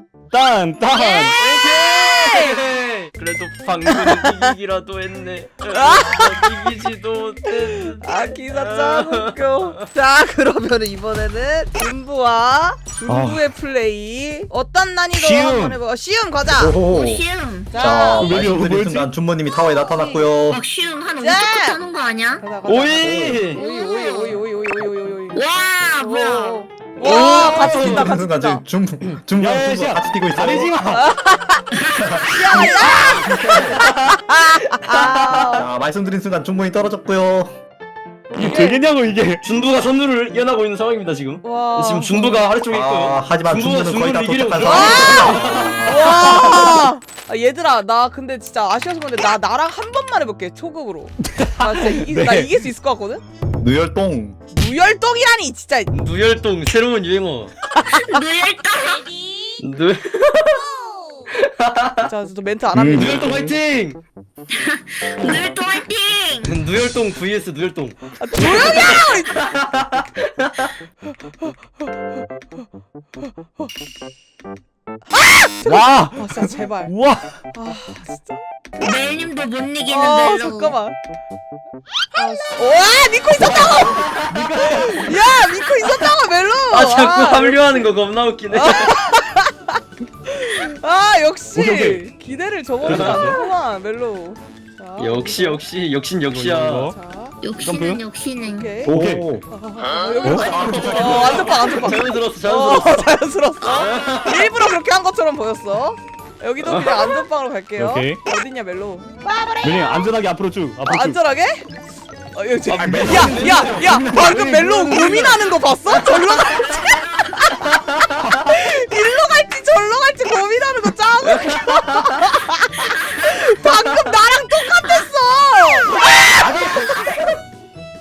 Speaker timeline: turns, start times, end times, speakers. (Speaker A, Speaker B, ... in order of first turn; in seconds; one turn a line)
Speaker A: 0.3-1.4
Speaker B: 0.9-2.6
Speaker C: 1.4-9.3
Speaker B: 3.9-4.5
Speaker B: 5.7-6.5
Speaker B: 8.0-16.8
Speaker A: 13.1-13.4
Speaker A: 15.2-15.8
Speaker D: 16.6-20.6
Speaker E: 16.9-17.7
Speaker B: 17.7-18.3
Speaker A: 18.2-19.1
Speaker E: 19.8-22.5
Speaker B: 21.2-21.8
Speaker B: 22.4-25.4
Speaker C: 22.6-23.6
Speaker D: 23.0-23.4
Speaker E: 23.5-24.4
Speaker E: 25.4-27.3
Speaker B: 26.0-28.6
Speaker C: 27.0-28.2
Speaker D: 27.4-30.7
Speaker A: 29.4-31.1
Speaker B: 30.9-31.7
Speaker D: 31.9-33.9
Speaker E: 32.0-32.9
Speaker B: 32.2-35.7
Speaker C: 33.4-35.6
Speaker D: 35.5-37.5
Speaker A: 38.3-39.4
Speaker B: 38.4-38.8
Speaker C: 39.4-46.9
Speaker B: 41.4-42.5
Speaker D: 42.7-45.7
Speaker B: 44.6-53.2
Speaker A: 51.4-52.5
Speaker D: 53.6-54.4
Speaker B: 54.5-55.9
Speaker C: 55.9-57.5
Speaker E: 57.8-59.6
Speaker C: 59.6-60.7
Speaker C: 61.4-62.1
Speaker B: 62.0-63.5
Speaker D: 62.7-63.2
Speaker C: 63.0-64.0
Speaker E: 64.5-66.5
Speaker C: 66.4-70.7
Speaker B: 68.2-69.5
Speaker B: 75.1-77.0
Speaker A: 75.7-77.3
Speaker B: 77.5-78.4
Speaker E: 78.8-80.8
Speaker B: 79.9-81.0
Speaker E: 82.2-82.5
Speaker B: 82.2-87.8
Speaker A: 83.4-85.3
Speaker E: 85.4-85.7
Speaker C: 86.7-89.0
Speaker B: 88.5-95.6
Speaker A: 91.5-92.0
Speaker C: 92.8-93.3
Speaker A: 92.8-93.4
Speaker C: 95.0-96.9
Speaker A: 96.3-97.0
Speaker B: 96.8-97.4
Speaker E: 97.4-98.8
Speaker A: 97.6-98.0
Speaker B: 98.4-98.9
Speaker A: 98.8-99.2
Speaker D: 98.9-99.5
Speaker B: 99.5-110.1
Speaker A: 100.2-100.6
Speaker D: 100.2-101.7
Speaker C: 101.0-103.1
Speaker E: 103.6-104.2
Speaker C: 103.7-104.5
Speaker C: 106.6-107.2
Speaker A: 107.8-108.2
Speaker A: 109.6-111.2
Speaker B: 110.8-111.7
Speaker B: 112.3-126.7
Speaker C: 112.7-113.9
Speaker D: 112.8-114.9
Speaker A: 114.2-115.4
Speaker C: 116.2-116.8
Speaker E: 116.8-117.3
Speaker C: 117.6-118.1
Speaker C: 121.2-122.2
Speaker E: 126.5-127.2